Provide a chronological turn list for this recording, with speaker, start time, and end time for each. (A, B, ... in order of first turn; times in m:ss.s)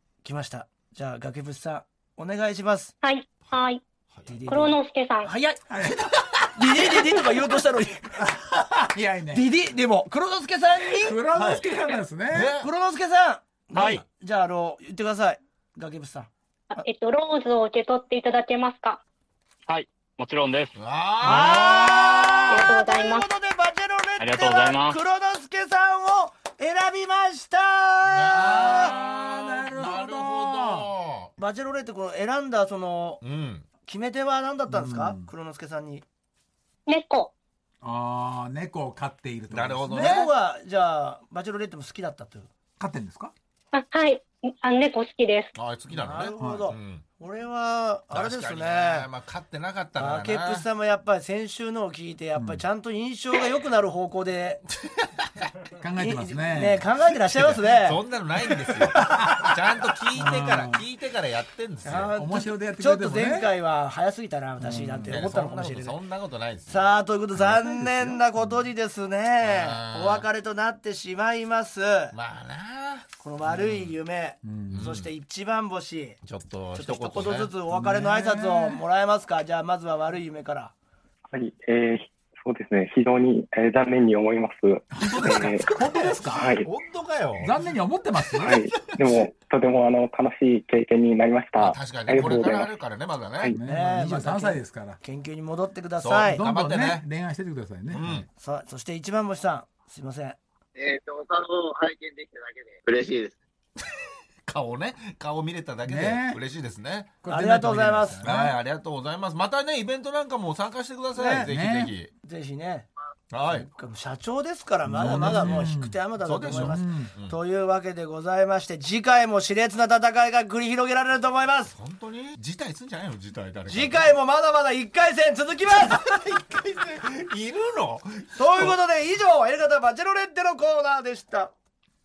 0:00.2-0:02.9 A
0:03.0-0:03.8 B
0:04.1-0:04.4 C
0:04.3-0:05.6 A
0:04.5-0:05.3 B
0:05.7-0:07.5 D
0:06.5-0:08.3 A
0:08.2-0:09.5 D
0:09.3-0:11.2 A
0:11.0-0:12.5 D
0:11.3-0:11.7 C
0:12.3-0:12.7 C
0:12.6-0:16.8 A
0:13.7-0:14.0 E
0:16.7-0:19.0 B
0:19.7-0:20.8 E
0:20.8-0:22.7 C
0:21.2-0:28.9 A
0:22.5-0:23.3 B
0:24.2-0:25.0 E
0:28.1-0:31.3 C
0:28.3-0:30.9 D
0:31.4-0:33.2 A
0:33.2-0:33.7 C
0:33.8-0:36.0 A
0:34.7-0:35.3 D
0:36.9-0:37.3 B
0:37.8-0:40.2 D
0:39.5-0:40.3 C
0:39.9-0:42.5 A
0:42.8-0:43.3 D
0:43.7-0:45.5 B
0:45.6-0:47.0 C
0:45.9-0:49.1 A
0:46.4-0:46.7 D
0:48.1-0:50.7 C
0:50.0-0:54.6 A
0:52.4-0:52.6 D
0:54.8-0:55.4 C
0:55.8-0:56.8 D
0:56.0-0:58.0 A
0:57.2-1:02.1 C
0:59.0-0:59.6 D
1:00.2-1:00.8 D
1:01.8-1:06.0 A
1:02.2-1:03.5 D
1:04.6-1:05.2 D
1:05.1-1:06.9 C
1:06.7-1:12.2 A
1:07.4-1:08.5 D
1:09.4-1:10.3 C
1:12.1-1:14.0 C
1:13.2-1:16.2 A
1:14.4-1:14.9 D
1:14.7-1:15.1 C
1:16.2-1:17.5 C
1:16.8-1:20.7 A
1:17.7-1:18.8 D
1:21.3-1:25.7 F
1:25.0-1:26.6 D
1:25.0-1:27.6 C
1:26.4-1:26.7 F
1:27.4-1:28.6 D
1:28.4-1:29.2 C
1:28.4-1:32.7 F
1:31.6-1:33.5 C
1:32.2-1:32.4 D
1:33.5-1:35.0 D
1:33.7-1:36.4 A
1:36.0-1:37.0 C
1:36.3-1:38.3 D
1:37.9-1:38.3 C
1:38.4-1:40.4 A
1:40.8-1:43.4 G
1:44.5-1:47.1 C
1:45.9-1:46.4 D
1:47.2-1:48.6 D
1:47.3-1:48.2 A
1:48.2-1:52.1 C
1:51.2-1:51.5 A
1:51.5-1:51.9 D
1:52.2-1:52.9 A
1:53.3-1:53.7 C
1:53.5-2:01.7 A
1:54.8-1:57.1 D
1:55.1-1:55.7 C
1:56.2-1:57.4 C
2:01.7-2:04.1 C
2:03.7-2:06.0 A
2:05.7-2:08.8 C
2:08.4-2:11.5 A